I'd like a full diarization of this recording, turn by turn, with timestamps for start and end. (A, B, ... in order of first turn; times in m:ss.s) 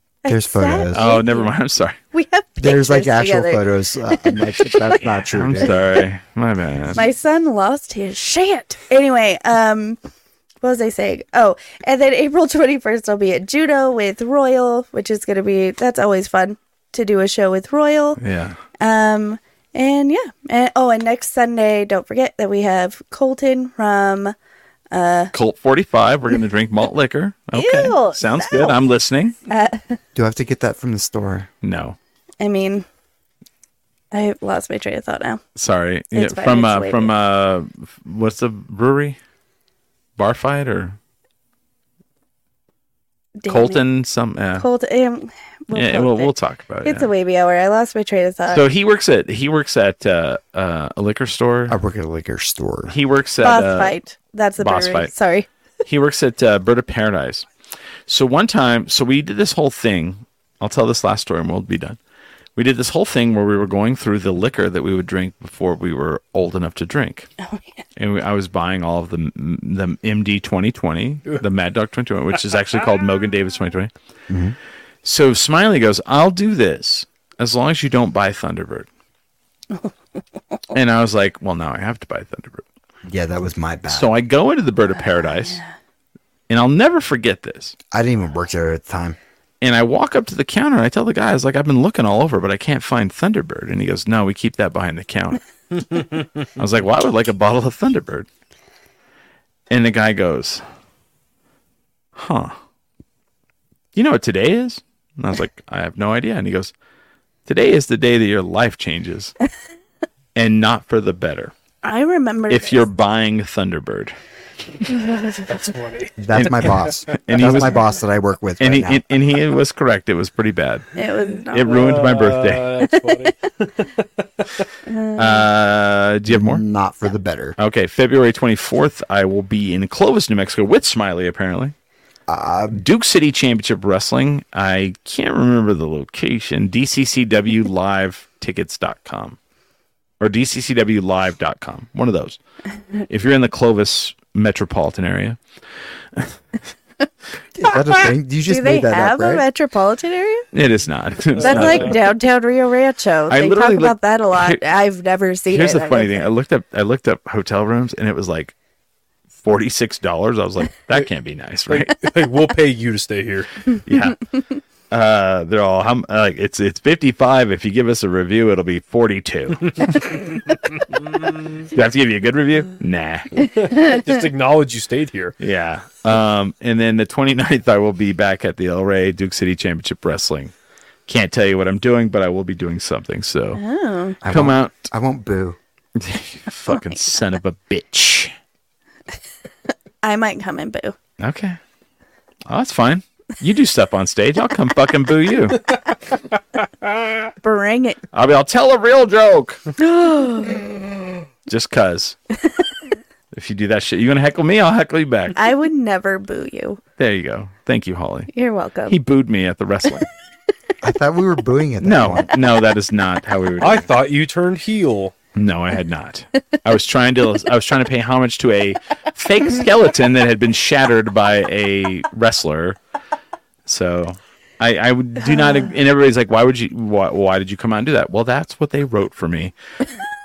0:00.2-0:01.5 A
0:00.3-0:01.0 B
0:00.9-0:02.0 C
0:02.1-0:05.1 A
0:02.6-0:05.8 B
0:05.3-0:07.0 C
0:06.9-0:10.0 A
0:10.6-0:18.2 A
0:18.2-0:18.6 C
0:18.8-0:24.3 A
0:24.9-0:25.3 A
0:25.3-0:29.4 C
0:27.5-0:28.8 A
0:29.5-0:30.0 A
0:30.1-0:31.5 B
0:31.6-0:32.0 C
0:32.4-0:32.8 A
0:34.1-0:35.4 A
0:35.6-0:39.2 C
0:36.1-0:37.1 A
0:40.2-0:41.0 C
0:43.4-0:43.8 A
0:43.5-0:44.6 C
0:44.6-0:46.3 A
0:45.7-0:47.1 C
0:46.8-0:48.6 A
0:48.5-0:51.8 C
0:51.7-0:52.9 B
0:52.9-0:53.9 C
0:53.4-0:55.5 A
0:54.6-0:55.1 C
0:55.8-0:57.5 C
0:58.1-1:02.0 C
1:02.6-1:07.3 C
1:07.4-1:07.8 A
1:08.0-1:13.9 C
1:14.3-1:14.6 B
1:15.0-1:18.9 C
1:20.7-1:22.6 C
1:23.0-1:24.1 B
1:23.9-1:25.6 C
1:25.2-1:25.7 A
1:26.5-1:27.8 C
1:27.9-1:29.2 B
1:29.6-1:35.4 C
1:35.9-1:36.2 D
1:36.6-1:38.3 C
1:39.7-1:40.6 C
1:42.2-1:42.6 C
1:43.9-1:46.7 C
1:47.4-1:49.3 C
1:50.3-1:51.5 C
1:51.8-1:52.8 A
1:52.5-1:54.1 C
1:55.4-1:56.1 D
1:56.2-1:59.0 B
1:56.3-1:57.8 C
1:58.6-2:00.9 C
2:00.9-2:01.9 A
2:01.5-2:02.8 C
2:01.6-2:04.7 D
2:04.8-2:05.4 A
2:05.1-2:06.6 C
2:06.3-2:07.6 B
2:07.6-2:11.7 C
2:12.3-2:12.8 B
2:12.7-2:19.4 C
2:20.2-2:22.4 C
2:23.0-2:25.4 C
2:26.1-2:26.4 C
2:27.6-2:29.4 B
2:28.4-2:30.5 A
2:30.5-2:32.0 C
2:31.4-2:32.0 D
2:31.4-2:36.3 A
2:33.3-2:34.6 C
2:35.5-2:38.5 C
2:39.4-2:42.1 C
2:41.7-2:43.6 D
2:43.8-2:44.3 C
2:44.9-2:50.2 C
2:51.7-2:53.4 C
2:53.4-2:55.4 D
2:55.4-3:00.5 C
3:01.1-3:03.6 C
3:03.5-3:04.2 A
3:04.2-3:04.9 C
3:04.2-3:05.6 B
3:06.0-3:08.3 C
3:06.7-3:07.0 A
3:10.0-3:11.0 A
3:11.2-3:11.6 C
3:12.5-3:15.7 C
3:17.4-3:18.0 A
3:18.1-3:19.6 C
3:19.8-3:20.8 A
3:21.5-3:22.2 C
3:23.3-3:25.4 C
3:25.4-3:26.8 A
3:27.0-3:28.3 C
3:28.3-3:29.0 A
3:28.9-3:30.1 C
3:30.8-3:32.3 B
3:31.8-3:33.9 C
3:33.6-3:35.1 D
3:35.3-3:42.8 C
3:43.6-3:49.5 C
3:45.2-3:45.7 A